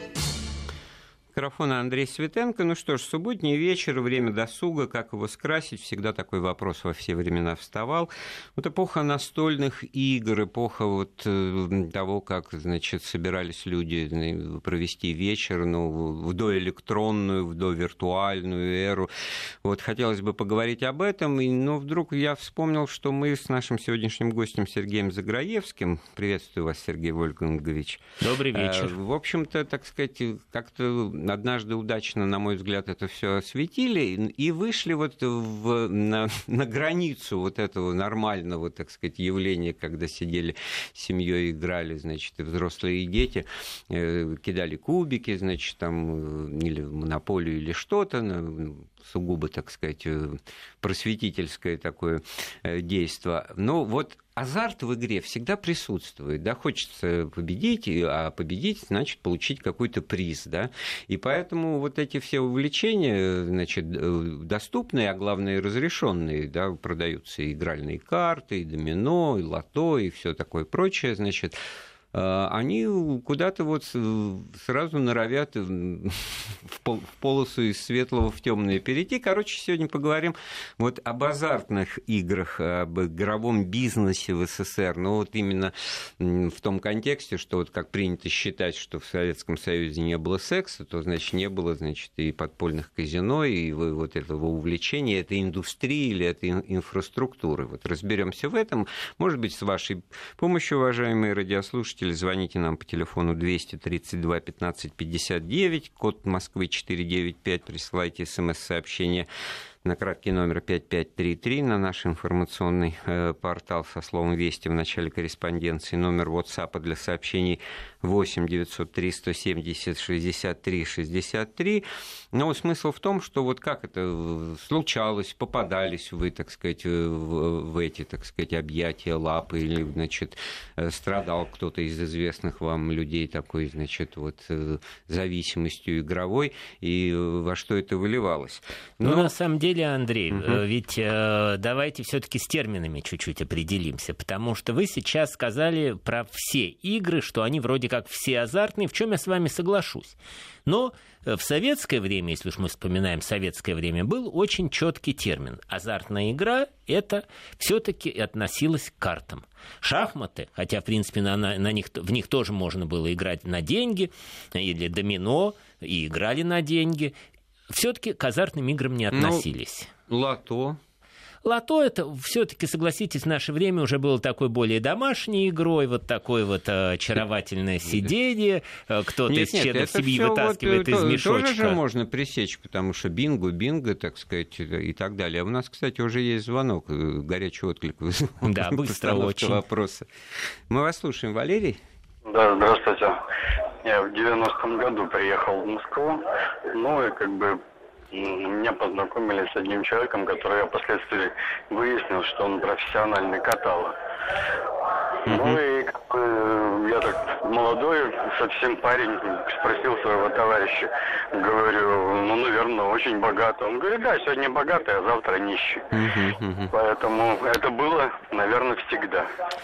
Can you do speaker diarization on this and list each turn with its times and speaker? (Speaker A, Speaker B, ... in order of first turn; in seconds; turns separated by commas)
Speaker A: 1.4-19.1, Speaker A: 19.6-71.6, Speaker B: 28.2-29.0, Speaker A: 72.1-109.3, Speaker A: 109.8-139.3, Speaker B: 139.0-167.1, Speaker A: 140.3-140.6, Speaker B: 167.7-169.9, Speaker A: 169.1-169.4, Speaker A: 170.1-170.8, Speaker B: 171.4-181.8, Speaker A: 179.3-190.1, Speaker B: 188.4-189.6, Speaker A: 190.7-191.8, Speaker C: 192.3-193.2, Speaker C: 193.8-197.6, Speaker C: 198.1-203.9, Speaker A: 205.3-205.6, Speaker C: 205.3-215.9, Speaker A: 215.9-216.7, Speaker C: 216.7-219.3